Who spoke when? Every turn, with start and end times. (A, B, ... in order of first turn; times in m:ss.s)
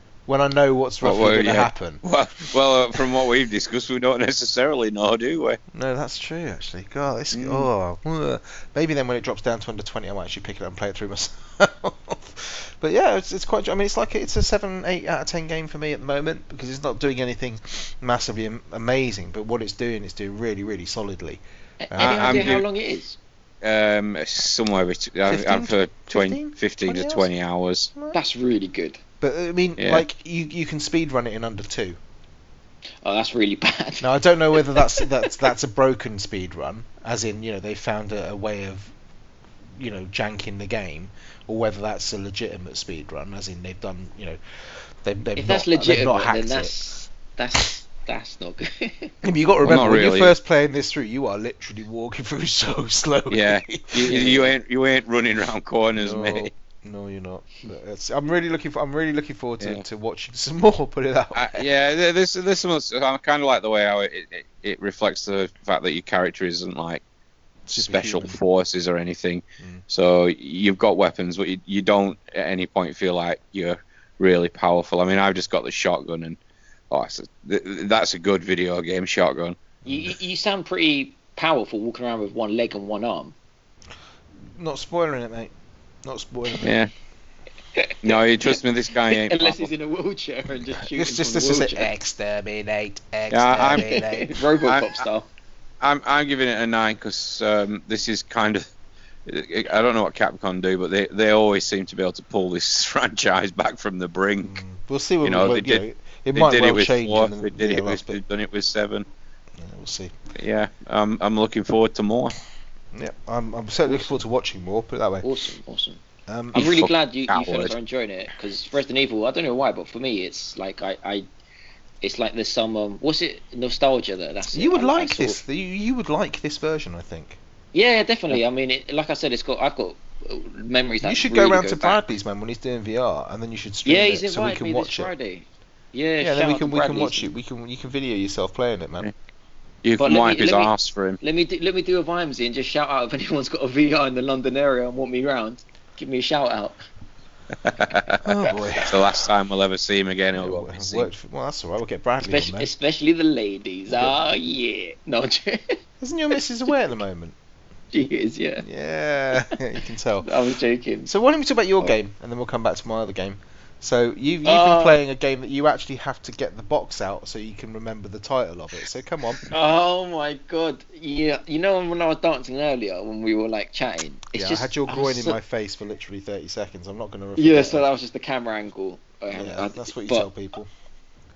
0:00.3-0:02.0 A
0:01.0-0:05.6 B
0:05.7-0:22.6 A
0:07.3-0:07.7 B
0:21.8-0:23.2 C
0:22.0-0:22.6 B
0:23.6-0:27.9 B
0:25.2-0:27.3 A
0:28.1-0:29.0 C
0:29.2-0:32.0 A
0:29.8-0:30.0 B
0:33.0-0:35.1 C
0:34.0-0:38.9 A
0:39.8-0:44.4 A
0:45.0-0:46.8 A
0:45.4-0:49.2 C
0:49.2-0:54.4 A
0:49.6-0:50.3 B
0:53.3-0:56.5 B
0:54.1-0:54.5 C
0:55.9-1:01.6 A
0:59.6-0:59.8 B
1:01.3-1:07.0 B
1:07.7-1:08.4 A
1:07.7-1:16.4 B
1:16.9-1:19.6 B
1:19.8-1:20.1 A
1:19.9-1:23.3 C
1:24.6-1:25.5 A
1:26.0-1:26.7 A
1:26.6-1:26.9 B
1:27.7-1:31.9 C
1:28.0-1:29.7 B
1:30.6-1:34.4 A
1:33.3-1:33.9 B
1:33.7-1:35.3 C
1:34.7-1:35.0 B
1:35.8-1:38.6 B
1:39.3-1:44.6 B
1:44.4-1:48.2 A
1:45.2-1:45.8 B
1:46.3-1:49.0 B
1:49.6-1:50.1 A
1:50.4-1:52.4 B
1:52.9-1:55.3 A
1:53.9-1:54.1 C
1:55.2-1:56.0 C
1:56.3-1:56.6 A
1:56.5-2:01.3 C
1:56.5-1:57.7 B
2:02.0-2:05.4 C
2:04.5-2:07.4 A
2:07.7-2:12.0 C
2:11.0-2:15.1 A
2:13.8-2:17.3 C
2:16.2-2:19.1 A
2:19.8-2:21.2 B
2:20.0-2:26.8 C
2:27.6-2:28.2 B
2:28.2-2:29.2 A
2:28.9-2:31.1 B
2:30.3-2:32.7 A
2:32.2-2:35.8 C
2:33.9-2:34.2 A
2:36.0-2:37.3 A
2:37.9-2:38.6 C
2:38.6-2:40.3 A
2:40.2-2:41.1 C
2:41.0-2:49.4 A
2:44.4-2:45.0 C
2:49.5-2:55.4 C
2:54.4-2:57.8 A
2:57.4-3:00.3 C
2:59.3-3:00.7 A